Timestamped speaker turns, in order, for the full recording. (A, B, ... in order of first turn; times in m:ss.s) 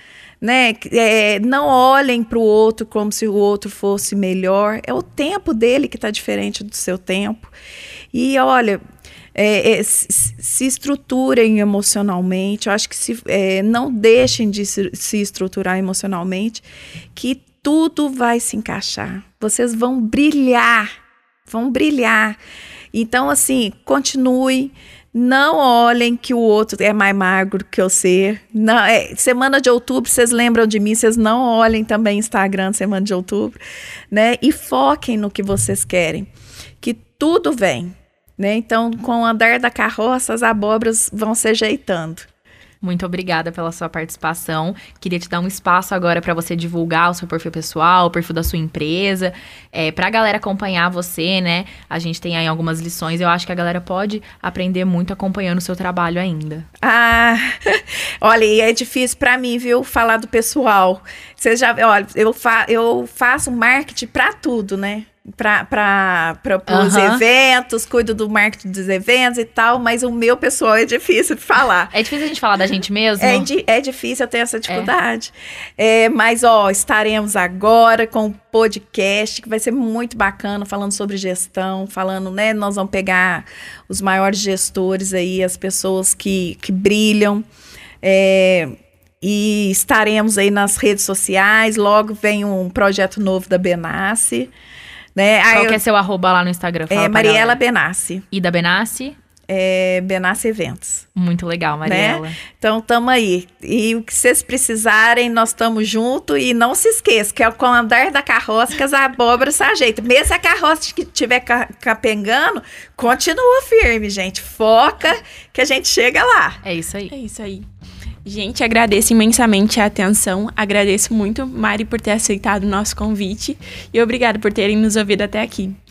0:00.4-0:07.5 A
0:08.1-0:08.8 A
0:09.3-0:20.9 A
0:21.5-0:22.4 A
0:22.9-0:33.6 A
0:34.1-0:36.3 A
0:36.8-0:42.3 A
0:42.8-0:56.7 B
0:56.8-1:11.9 A
1:06.7-1:07.2 B
1:11.9-1:13.5 B
1:13.2-1:27.4 A
1:28.0-1:34.5 A
1:35.1-1:35.8 A
1:35.5-1:37.6 B
1:36.9-1:38.2 A
1:38.3-1:39.2 B
1:39.5-1:41.1 A
1:41.1-1:42.4 B
1:41.8-1:56.6 A
1:56.6-1:57.1 B
1:57.1-1:57.6 C
1:58.2-2:05.8 C